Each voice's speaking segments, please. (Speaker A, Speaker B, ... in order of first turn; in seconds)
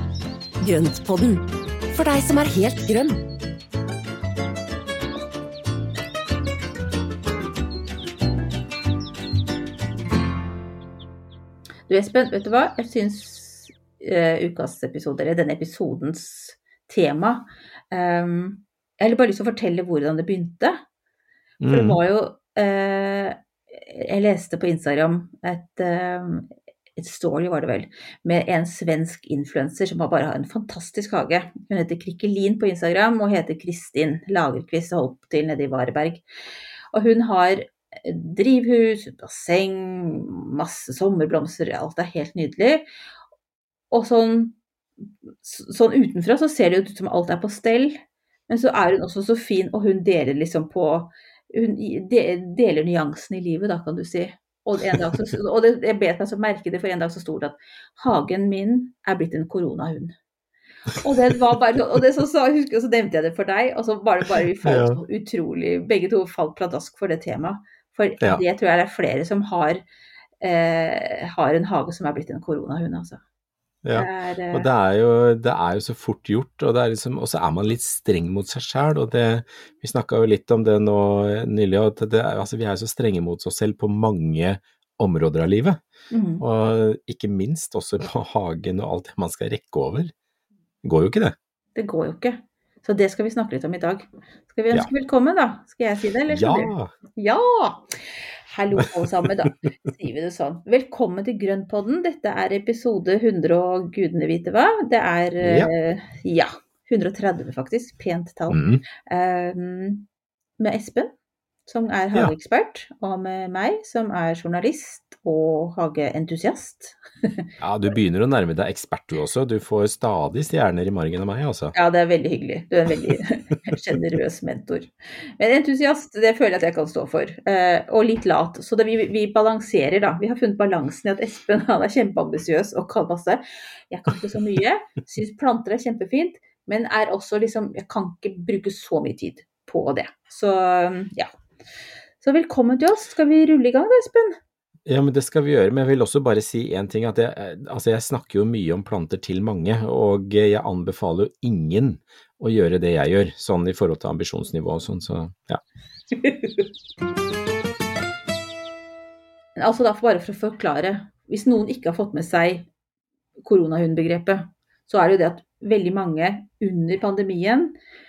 Speaker A: 0.6-3.2
Speaker B: 11.9-20.8, 21.7-36.2, 36.9-42.9, 43.9-44.6, 45.4-60.1, 61.0-69.8, 70.4-73.2, 73.9-74.7, 86.1-86.4, 91.7-97.9, 98.5-110.0, 110.6-111.1, 111.7-117.5, 121.7-141.3, 142.2-144.4, 156.1-156.6, 159.6-162.7, 163.4-167.7
Speaker C: 21.6-22.0, 64.6-65.0, 73.8-85.8, 86.4-90.1, 90.8-91.3, 96.3-96.9, 105.4-105.7, 108.5-108.8, 117.6-121.7, 144.8-155.6